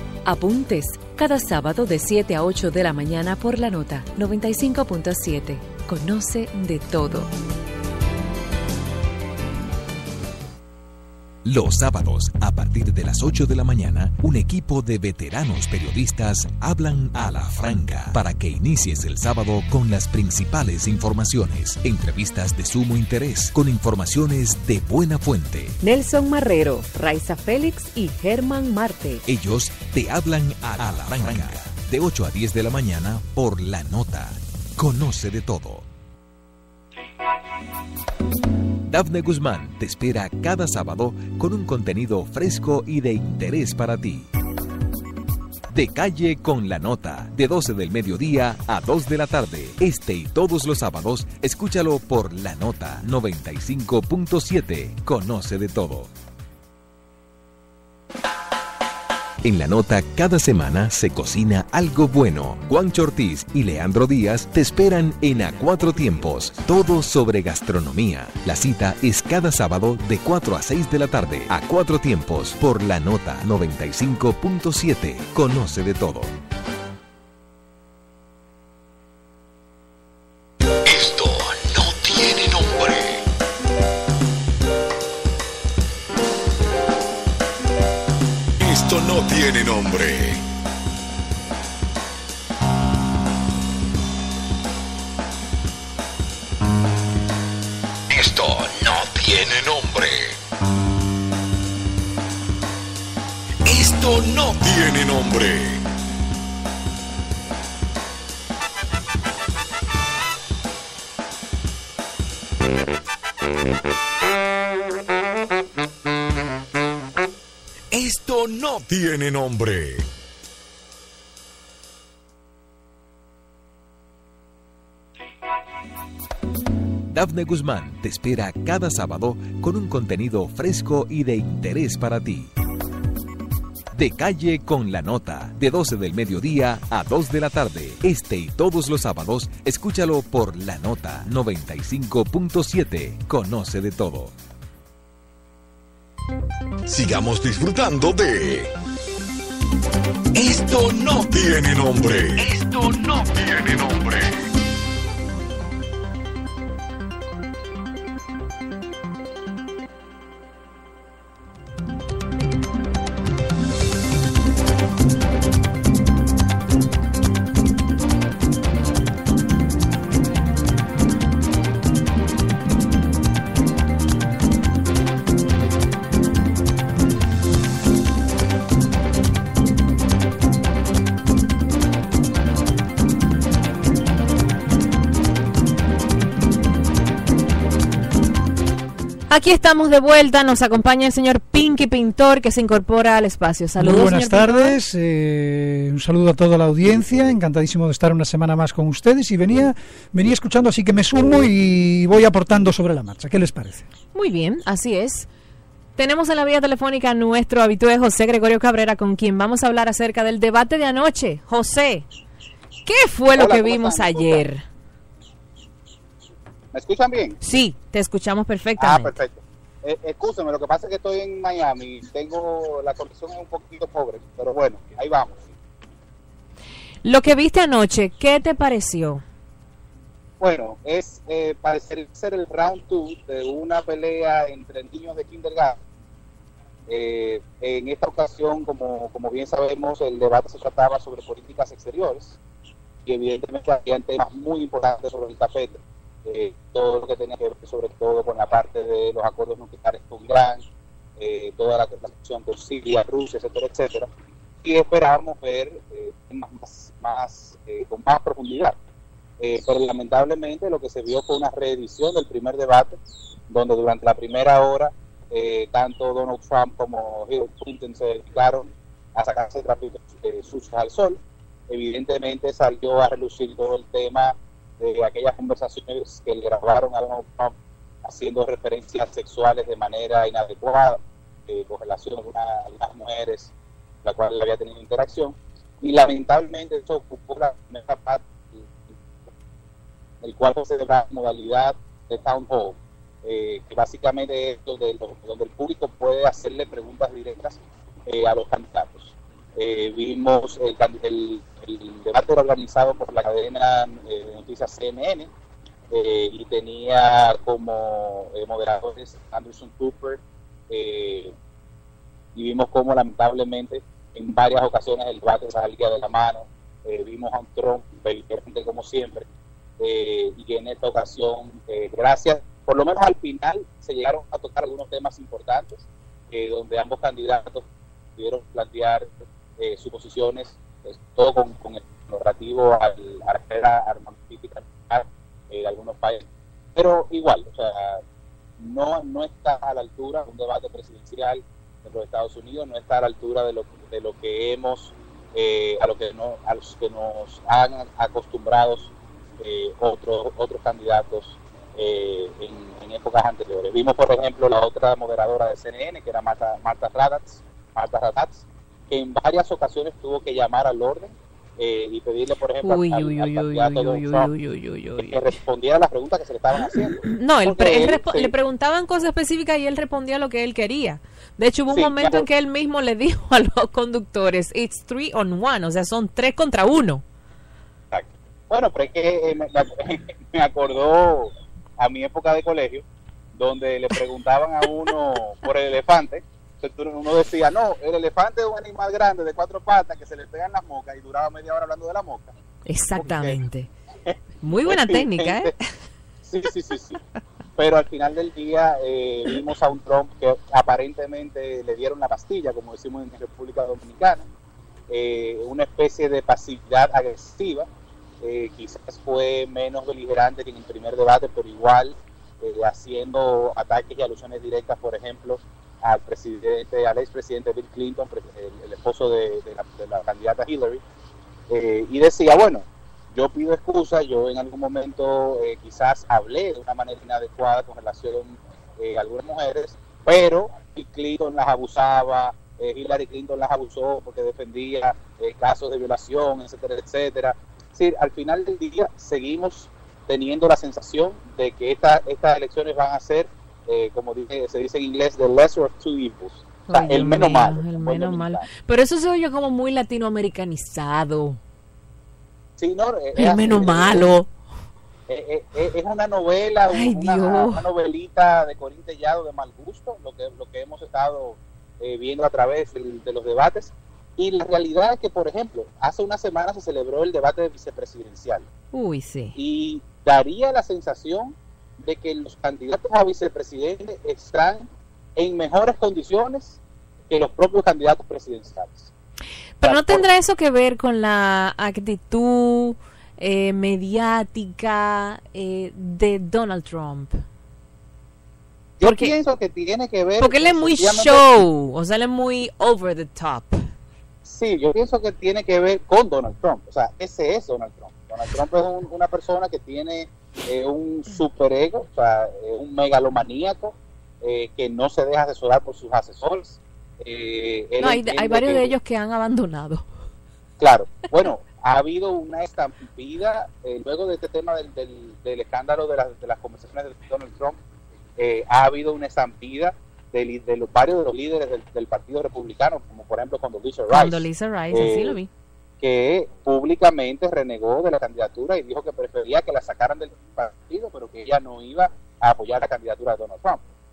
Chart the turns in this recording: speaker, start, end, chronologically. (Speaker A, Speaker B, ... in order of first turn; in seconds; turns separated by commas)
Speaker A: 0.2-7.3, Speaker B: 11.4-25.8, Speaker A: 25.8-29.2, Speaker B: 29.3-35.9, Speaker B: 38.9-44.3, Speaker B: 45.7-56.1, Speaker B: 59.4-76.3, Speaker C: 80.9-83.2, Speaker C: 88.6-90.4, Speaker C: 98.1-100.3, Speaker C: 103.7-105.8, Speaker C: 117.9-120.1, Speaker B: 127.1-132.5, Speaker B: 133.9-144.3, Speaker C: 146.9-148.7, Speaker C: 150.3-154.4, Speaker D: 189.3-194.8, Speaker E: 193.8-203.9, Speaker D: 204.1-205.3, Speaker D: 206.0-212.1, Speaker D: 212.9-214.6, Speaker F: 213.3-214.5, Speaker F: 216.7-217.4, Speaker D: 217.4-219.2, Speaker F: 218.8-225.5, Speaker D: 227.0-229.2, Speaker F: 230.4-235.8, Speaker F: 236.9-242.4, Speaker F: 243.1-250.6, Speaker F: 251.2-254.1, Speaker F: 254.6-258.8, Speaker F: 259.4-263.0, Speaker F: 263.5-283.5, Speaker F: 284.0-288.7, Speaker F: 290.2-305.3, Speaker F: 305.9-311.3, Speaker F: 312.4-319.3, Speaker F: 319.8-327.6, Speaker F: 328.2-338.0, Speaker F: 338.6-364.3, Speaker D: 362.6-365.4, Speaker F: 364.9-368.3, Speaker D: 366.6-377.0, Speaker F: 371.7-372.3, Speaker F: 377.9-382.8, Speaker F: 383.4-392.3, Speaker D: 392.7-393.7, Speaker F: 393.0-393.4, Speaker D: 394.4-395.5, Speaker F: 394.6-395.5, Speaker F: 396.2-397.0, Speaker F: 397.6-404.2, Speaker F: 404.9-407.7, Speaker F: 408.2-420.8, Speaker F: 421.5-448.5, Speaker D: 446.7-451.4, Speaker F: 452.6-454.1, Speaker D: 453.2-454.3, Speaker F: 455.1-468.5, Speaker D: 456.7-457.7, Speaker D: 468.7-469.4, Speaker F: 469.4-478.9, Speaker D: 479.6-487.2, Speaker F: 479.6-480.1, Speaker F: 488.8-491.4, Speaker D: 488.8-489.2, Speaker D: 490.2-493.6, Speaker F: 494.2-508.8, Speaker D: 507.8-509.9, Speaker F: 510.6-517.6, Speaker F: 518.2-525.2, Speaker D: 523.9-525.3, Speaker F: 525.8-533.6